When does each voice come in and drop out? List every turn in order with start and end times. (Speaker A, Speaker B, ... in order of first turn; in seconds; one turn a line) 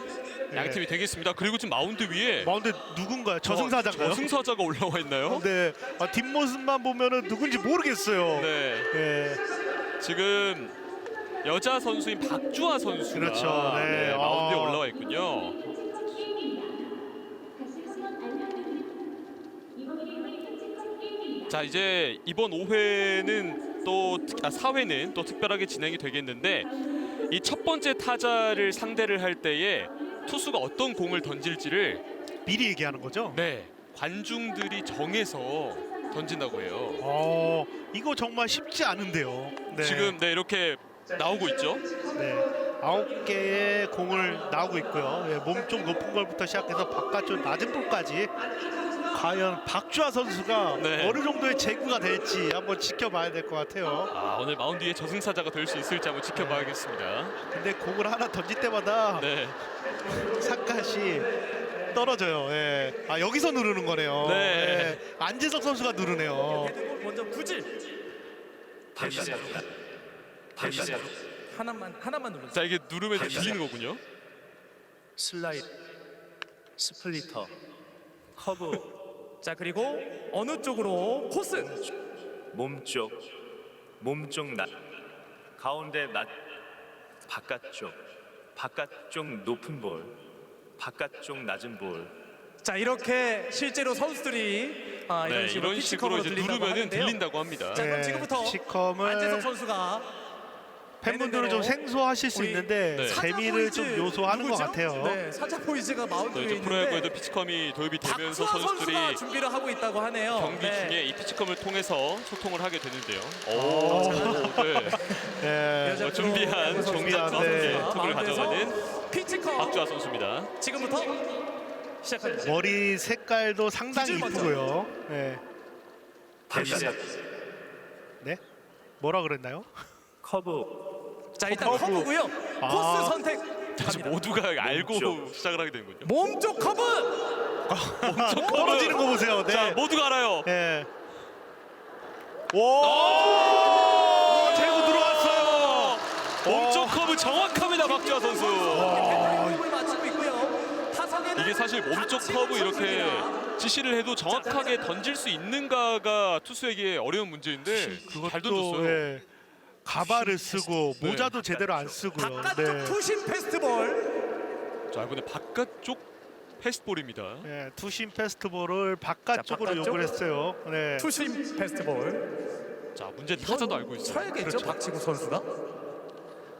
Speaker A: 0.5-0.8
Speaker B: 0.5-2.5
Speaker A: 2.4-4.3
Speaker B: 3.4-5.5
Speaker A: 5.2-9.4
Speaker B: 8.3-8.9
Speaker B: 10.0-10.8
Speaker B: 11.4-15.6
Speaker A: 13.1-14.8
Speaker B: 21.5-26.7
Speaker B: 27.3-32.0
Speaker A: 32.5-33.4
Speaker B: 33.3-37.0
Speaker A: 37.0-40.2
Speaker B: 39.7-41.9
Speaker A: 42.1-48.3
Speaker A: 49.1-54.1
Speaker B: 50.8-51.2
Speaker B: 54.1-57.4
Speaker A: 56.3-56.8
Speaker A: 57.5-59.3
Speaker B: 59.2-59.6
Speaker A: 60.2-61.3
Speaker A: 61.9-66.7
Speaker B: 64.2-65.0
Speaker C: 66.5-67.7
Speaker D: 68.9-69.6
Speaker B: 69.0-69.6
Speaker D: 70.5-71.1
Speaker B: 70.6-71.1
Speaker C: 71.5-72.7
Speaker B: 72.5-74.0
Speaker D: 73.1-73.7
Speaker D: 75.2-75.7
Speaker D: 76.8-77.5
Speaker D: 78.4-78.9
Speaker C: 79.4-81.8
Speaker D: 81.5-81.9
Speaker D: 82.5-83.2
Speaker D: 84.0-84.7
Speaker D: 85.5-86.3
Speaker D: 87.3-88.0
Speaker D: 88.5-90.2
Speaker D: 90.8-92.2
Speaker C: 92.6-97.2
Speaker B: 95.2-97.9
Speaker C: 97.7-100.1
Speaker A: 97.7-99.5
Speaker A: 101.0-105.2
Speaker C: 101.0-101.8
Speaker C: 102.3-107.1
Speaker B: 102.9-103.2
Speaker B: 106.3-109.2
Speaker C: 108.0-111.0
Speaker B: 110.3-115.0
Speaker A: 113.5-116.2
Speaker C: 113.9-114.4
Speaker C: 115.8-119.8
Speaker B: 116.0-118.8
Speaker A: 116.8-117.9
Speaker B: 119.5-120.5
Speaker C: 120.6-121.2
Speaker C: 122.0-122.6
Speaker A: 122.4-125.4
Speaker C: 123.9-124.6
Speaker D: 126.5-127.1
Speaker A: 126.5-126.9
Speaker A: 129.0-129.7
Speaker D: 130.2-130.8
Speaker C: 131.3-134.2
Speaker A: 131.5-132.0
Speaker D: 131.7-132.0
Speaker A: 132.6-133.2
Speaker B: 133.8-136.1
Speaker D: 134.6-135.2
Speaker C: 136.0-137.2
Speaker A: 137.7-139.8
Speaker B: 138.0-140.5
Speaker C: 138.3-138.8
Speaker A: 140.4-140.9
Speaker A: 142.5-147.2
Speaker B: 142.8-149.2
Speaker C: 147.4-153.4
Speaker A: 148.7-149.6
Speaker B: 151.3-159.1
Speaker C: 154.3-154.7
Speaker A: 157.7-159.3
Speaker A: 159.8-163.0
Speaker C: 159.9-160.8
Speaker B: 161.0-162.1
Speaker C: 162.2-164.1
Speaker B: 164.9-166.0
Speaker B: 166.6-167.5
Speaker A: 167.4-171.1
Speaker C: 169.3-170.1
Speaker C: 171.0-172.3
Speaker B: 172.9-174.7
Speaker C: 173.4-175.5
Speaker A: 174.4-174.7